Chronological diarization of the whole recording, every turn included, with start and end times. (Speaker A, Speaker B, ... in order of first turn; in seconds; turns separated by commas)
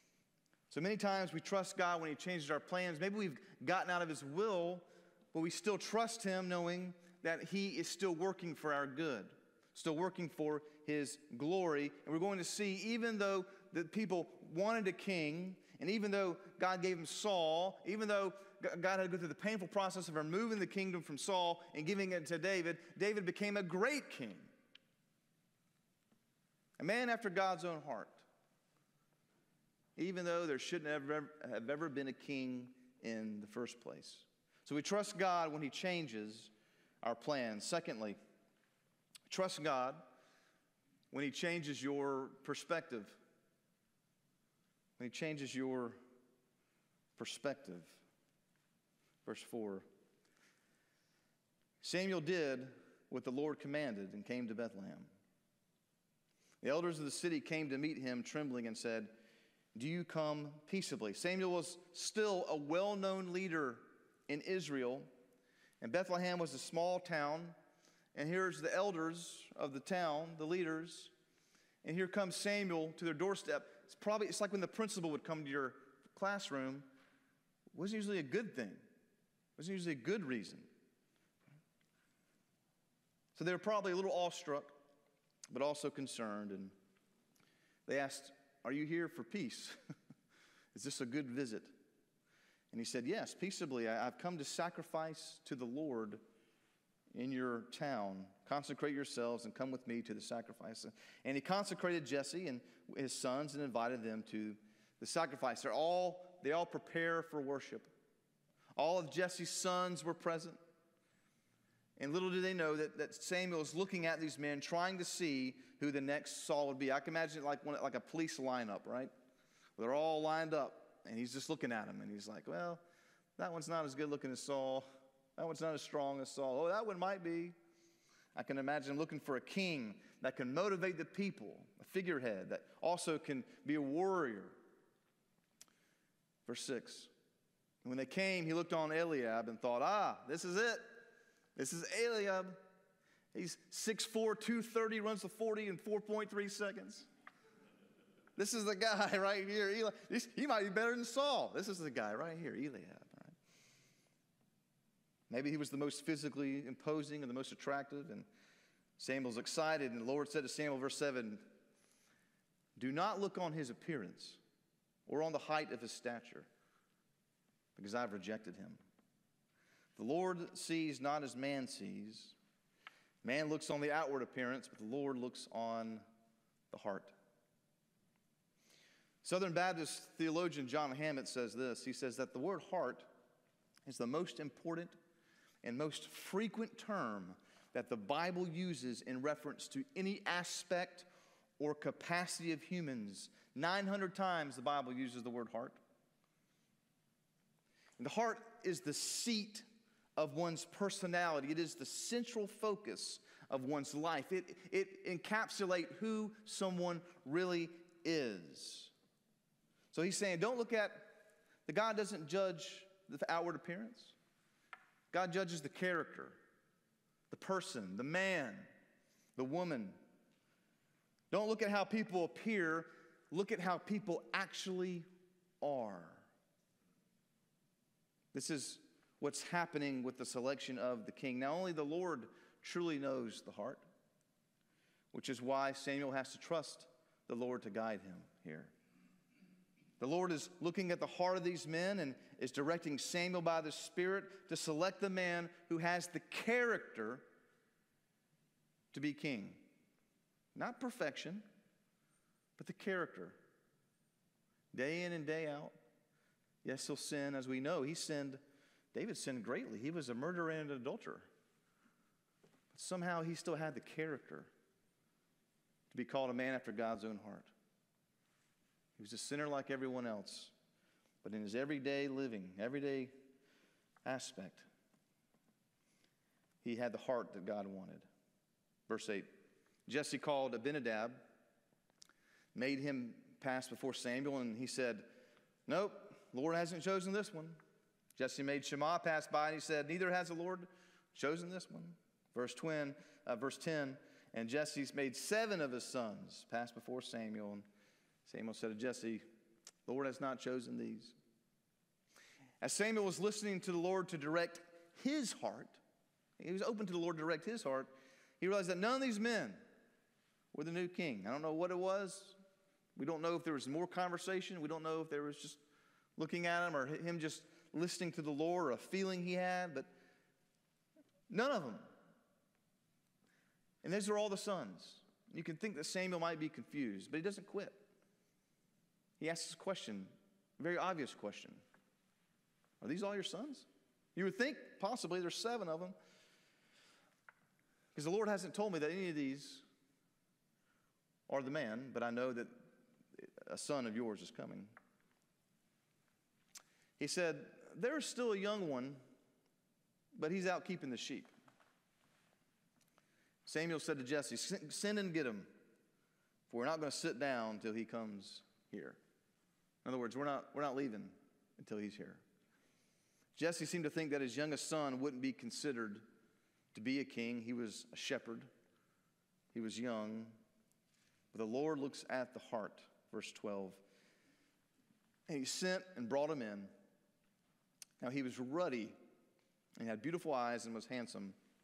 Speaker A: 0.7-24.5, Speaker A: 26.8-28.2, Speaker A: 29.9-36.5, Speaker A: 37.0-38.2, Speaker A: 39.3-40.0, Speaker A: 41.1-43.2, Speaker A: 45.0-46.0, Speaker A: 47.2-48.0, Speaker A: 49.2-49.9, Speaker A: 51.8-55.1, Speaker A: 56.6-59.1, Speaker A: 59.7-65.1, Speaker A: 65.8-67.5, Speaker A: 68.1-71.1, Speaker A: 71.8-76.9, Speaker A: 77.7-78.8, Speaker A: 79.6-80.7, Speaker A: 83.3-84.7, Speaker A: 85.5-86.7, Speaker A: 87.9-89.8, Speaker A: 90.7-91.7, Speaker A: 92.7-96.2, Speaker A: 97.1-107.9, Speaker A: 108.8-110.6, Speaker A: 112.0-119.1, Speaker A: 119.8-122.8, Speaker A: 123.4-127.5, Speaker A: 128.3-134.6, Speaker A: 136.4-137.1, Speaker A: 137.8-140.8, Speaker A: 141.6-142.6, Speaker A: 143.3-147.1, Speaker A: 148.3-153.3, Speaker A: 155.3-158.2, Speaker A: 159.0-161.5, Speaker A: 162.8-164.4, Speaker A: 165.1-166.5, Speaker A: 167.8-168.8, Speaker A: 169.9-172.3, Speaker A: 173.2-176.0, Speaker A: 176.7-177.1, Speaker A: 179.2-183.1, Speaker A: 183.9-184.9, Speaker A: 185.6-191.1, Speaker A: 191.6-195.8, Speaker A: 198.0-199.7, Speaker A: 200.2-208.9, Speaker A: 209.9-214.1, Speaker A: 215.1-216.4, Speaker A: 217.3-218.7, Speaker A: 219.3-220.0, Speaker A: 221.3-225.1, Speaker A: 225.6-226.3, Speaker A: 228.3-233.8, Speaker A: 235.1-238.7, Speaker A: 240.0-247.3, Speaker A: 248.9-249.6, Speaker A: 250.5-251.4, Speaker A: 252.6-253.4, Speaker A: 254.7-255.8, Speaker A: 256.6-258.4, Speaker A: 258.9-261.3, Speaker A: 262.7-264.5, Speaker A: 265.9-267.5, Speaker A: 269.0-270.5, Speaker A: 271.2-273.1, Speaker A: 274.0-274.6, Speaker A: 276.6-278.1, Speaker A: 278.9-279.3, Speaker A: 279.9-281.2, Speaker A: 282.5-285.1, Speaker A: 285.7-287.6, Speaker A: 288.1-297.6, Speaker A: 298.2-299.2, Speaker A: 299.9-301.1, Speaker A: 302.6-305.8, Speaker A: 306.4-309.6, Speaker A: 310.5-312.3, Speaker A: 312.9-315.6, Speaker A: 316.2-319.9, Speaker A: 321.3-321.9, Speaker A: 323.8-327.8, Speaker A: 329.2-331.6, Speaker A: 332.8-335.9, Speaker A: 337.9-339.6, Speaker A: 341.3-342.6, Speaker A: 343.1-344.7, Speaker A: 347.0-349.0, Speaker A: 350.1-351.3, Speaker A: 353.4-355.5, Speaker A: 356.5-359.0, Speaker A: 359.8-362.2, Speaker A: 363.3-366.0, Speaker A: 366.7-368.5, Speaker A: 369.5-370.4, Speaker A: 371.3-373.8, Speaker A: 375.3-376.7, Speaker A: 378.0-378.9, Speaker A: 379.8-381.4